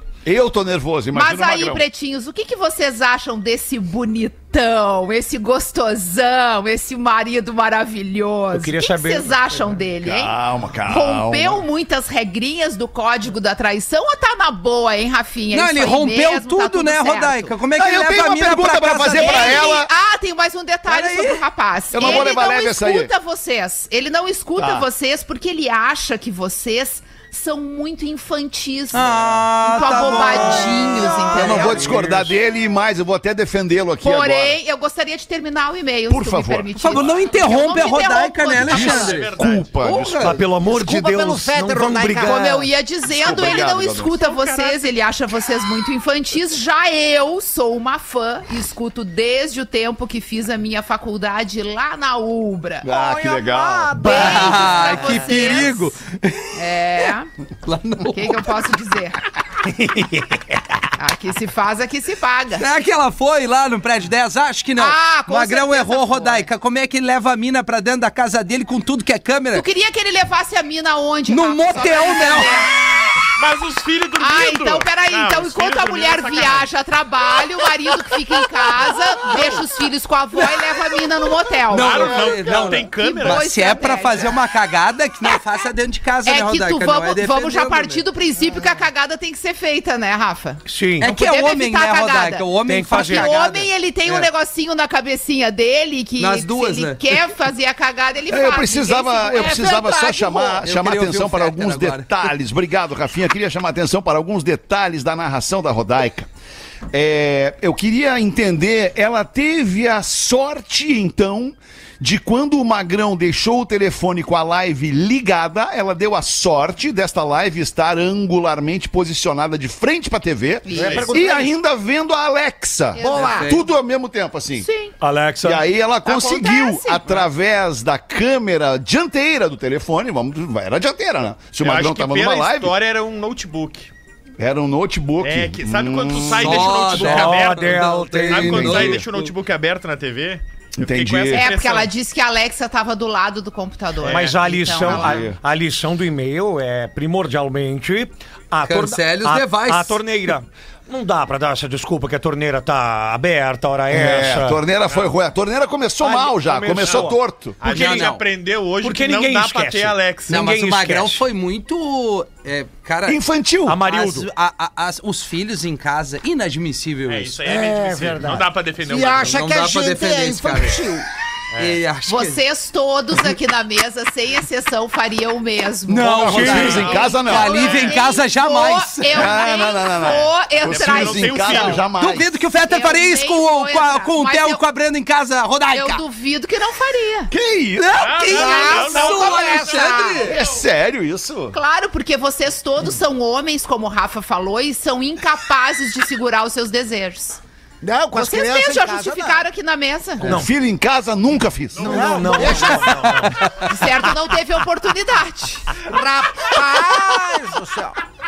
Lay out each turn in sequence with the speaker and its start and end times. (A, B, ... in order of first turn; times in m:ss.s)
0:00.2-0:01.9 A
0:01.1-0:10.3 B
0:08.5-0:09.4 C
0:10.0-0:11.6 A
0:10.8-0:17.6 B
0:15.5-0:19.6 D
0:17.8-0:19.9 A
0:19.0-0:31.9 B
0:20.9-0:21.4 D
0:21.9-0:23.1 A
0:28.9-0:31.7 D
0:30.1-0:31.9 E
0:31.3-0:34.6 A
0:31.5-0:32.3 C
0:34.0-0:39.0 B
0:36.1-0:37.0 A
0:36.8-0:40.4 D
0:38.6-0:40.5 A
0:38.7-0:39.8 F
0:40.2-0:42.7 C
0:40.6-0:42.4 E
0:42.2-0:52.9 B
0:43.1-0:44.1 A
0:44.1-0:44.9 F
0:52.8-0:54.0 A
0:52.9-0:55.6 E
0:54.0-0:56.6 D
0:54.0-0:55.9 B
0:56.5-0:57.3 B
0:57.6-0:58.6 D
0:58.0-0:59.2 B
0:59.6-1:00.8 C
1:01.0-1:02.6 B
1:02.6-1:09.6 D
1:04.8-1:06.5 B
1:09.5-1:12.7 B
1:11.3-1:12.5 D
1:13.4-1:16.7 F
1:14.2-1:22.4 B
1:21.7-1:28.0 D
1:21.7-1:23.7 F
1:22.9-1:24.4 B
1:26.2-1:40.6 B
1:30.7-1:31.1 C
1:31.0-1:34.3 D
1:32.6-1:33.3 C
1:36.2-1:37.3 D
1:38.3-1:46.3 A
1:40.6-1:42.2 D
1:46.9-2:04.7 A
2:00.6-2:01.2 B
2:00.7-2:01.5 E
2:00.8-2:01.1 F
2:02.9-2:03.5 B
2:03.0-2:03.5 E
2:03.2-2:03.6 D
2:04.6-2:04.9 B
2:05.0-2:05.6 C
2:05.4-2:12.7 A
2:06.0-2:07.2 B
2:11.6-2:13.9 F
2:14.4-2:16.7 A
2:15.2-2:21.9 F
2:16.4-2:19.3 D
2:16.8-2:18.8 C
2:18.3-2:19.0 A
2:20.8-2:21.5 A
2:21.3-2:25.3 B
2:24.0-2:24.4 F
2:24.0-2:34.6 C
2:24.8-2:25.4 A
2:28.6-2:30.0 D
2:33.9-2:37.6 A
2:34.9-2:35.1 F
2:36.0-2:38.0 C
2:36.8-2:40.3 F
2:37.6-2:38.2 D
2:38.8-2:41.2 C
2:40.3-2:43.2 D
2:43.0-2:43.8 A
2:43.6-2:44.3 C
2:43.8-2:47.4 D
2:47.1-2:49.4 F
2:48.0-2:48.4 C
2:48.8-2:51.1 E
2:49.2-2:50.8 D
2:51.5-2:51.8 F
2:51.6-2:52.4 D
2:52.0-3:01.8 B
2:55.9-2:59.4 D
2:56.1-2:57.8 A
2:56.2-2:56.8 C
2:56.5-2:58.0 F
2:59.1-3:02.3 A
2:59.9-3:01.8 F
3:01.9-3:06.0 D
3:02.6-3:04.6 B
3:05.7-3:07.3 B
3:07.3-3:08.1 A
3:07.8-3:10.3 D
3:08.0-3:10.0 F
3:08.3-3:09.9 B
3:08.3-3:10.3 E
3:10.2-3:11.6 A
3:11.5-3:17.4 B
3:17.8-3:19.4 E
3:18.1-3:20.4 B
3:20.2-3:20.5 C
3:20.2-3:22.4 A
3:21.7-3:23.3 F
3:21.8-3:23.5 C
3:21.8-3:23.3 E
3:23.2-3:23.6 D
3:23.6-3:25.8 B
3:25.8-3:28.0 E